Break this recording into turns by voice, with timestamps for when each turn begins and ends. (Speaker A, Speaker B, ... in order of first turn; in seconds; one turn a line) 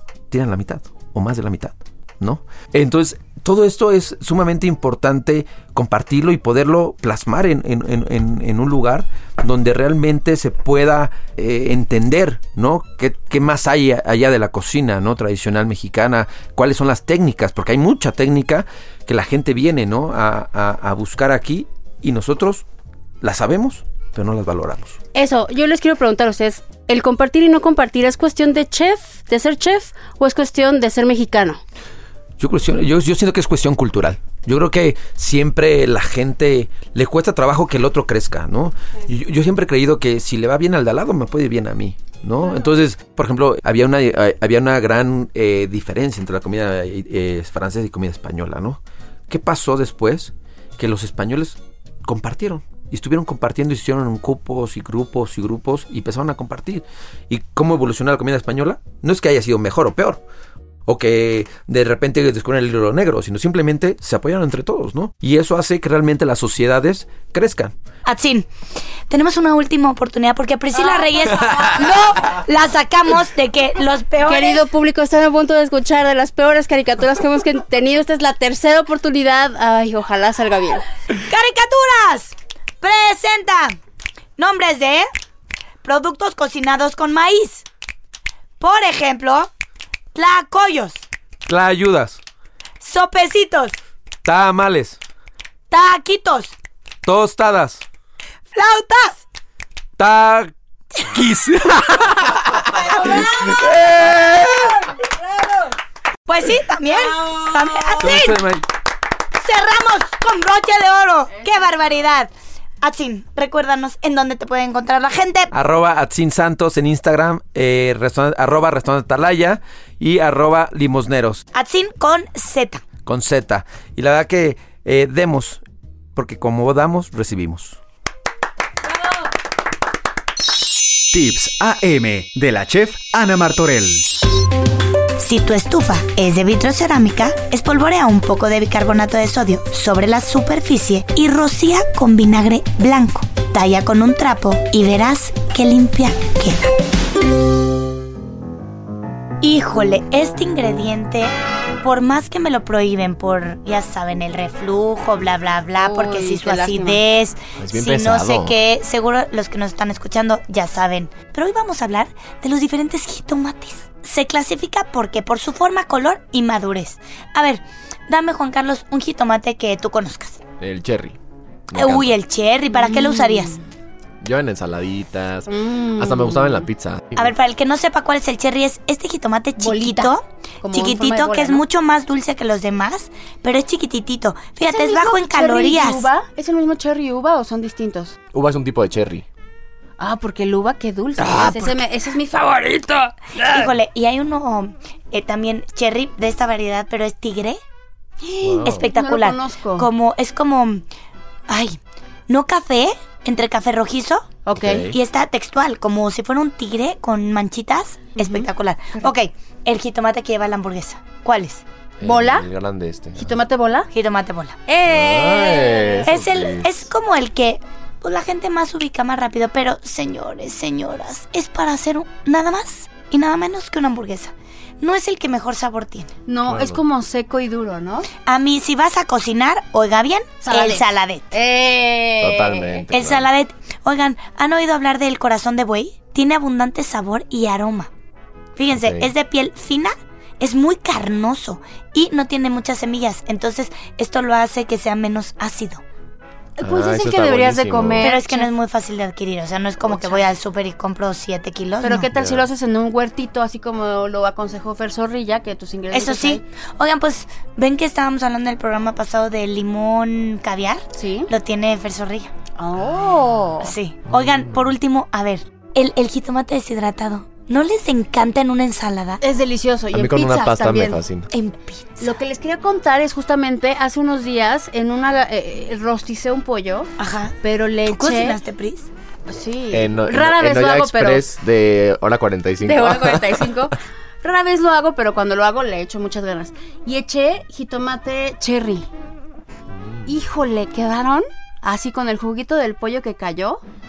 Speaker A: 0.3-22.6
Speaker A: 23.2-25.0
Speaker B: 25.1-31.6
Speaker A: 32.4-60.2
Speaker A: 60.9-67.7
Speaker C: 68.0-68.5
Speaker C: 69.1-74.6
Speaker B: 70.8-71.6
Speaker B: 74.2-80.8
Speaker C: 81.2-83.8
Speaker C: 84.4-85.1
Speaker C: 85.8-87.6
Speaker C: 88.6-89.5
Speaker C: 90.1-91.0
Speaker A: 91.5-92.2
Speaker C: 92.8-93.8
Speaker A: 94.2-95.0
Speaker C: 95.7-96.5
Speaker A: 97.0-97.8
Speaker C: 98.5-99.2
Speaker A: 100.0-104.8
Speaker C: 106.3-108.5
Speaker B: 107.1-107.5
Speaker A: 108.0-108.6
Speaker C: 109.4-112.3
Speaker C: 112.8-115.5
Speaker A: 115.5-121.4
Speaker C: 121.5-122.8
Speaker A: 123.0-125.6
Speaker A: 126.1-127.8
Speaker D: 131.1-134.1
Speaker C: 135.2-146.7
Speaker C: 149.4-170.4
Speaker B: 155.8-157.0
Speaker E: 157.6-158.6
Speaker E: 170.6-171.2
Speaker E: 171.7-172.2
Speaker C: 171.7-173.6
Speaker B: 172.8-173.6
Speaker E: 174.2-177.3
Speaker B: 175.5-176.7
Speaker C: 177.2-186.1
Speaker B: 179.6-181.6
Speaker B: 184.7-188.2
Speaker E: 188.3-189.2
Speaker B: 190.0-193.7
Speaker E: 191.2-191.6
Speaker C: 191.3-191.6
Speaker C: 193.4-197.6
Speaker B: 198.2-199.9
Speaker E: 198.4-198.8
Speaker C: 198.6-200.8
Speaker C: 201.5-204.3
Speaker B: 204.4-204.8
Speaker E: 204.5-204.9
Speaker C: 204.9-211.6
Speaker B: 208.2-208.5
Speaker E: 212.0-213.4
Speaker B: 212.0-212.5
Speaker B: 213.2-213.9
Speaker C: 213.9-214.6
Speaker B: 214.7-216.1
Speaker E: 214.8-216.8
Speaker C: 216.1-226.1
Speaker B: 226.3-228.1
Speaker E: 226.4-226.8
Speaker C: 228.2-231.2
Speaker B: 230.4-232.9
Speaker E: 232.2-233.2
Speaker C: 232.9-237.9
Speaker C: 238.6-245.8
Speaker E: 238.7-239.1
Speaker B: 246.6-248.5
Speaker E: 246.6-248.1
Speaker C: 248.0-252.1
Speaker B: 249.8-250.3
Speaker B: 251.8-256.4
Speaker E: 252.1-252.4
Speaker C: 255.9-262.3
Speaker B: 260.9-261.3
Speaker B: 262.6-263.7
Speaker C: 263.6-269.2
Speaker B: 269.2-271.0
Speaker E: 269.9-271.3
Speaker C: 271.3-272.1
Speaker B: 272.0-276.9
Speaker C: 277.0-278.9
Speaker B: 277.4-278.4
Speaker B: 279.2-281.3
Speaker E: 279.7-283.5
Speaker B: 282.6-288.9
Speaker E: 289.8-290.1
Speaker B: 290.1-293.6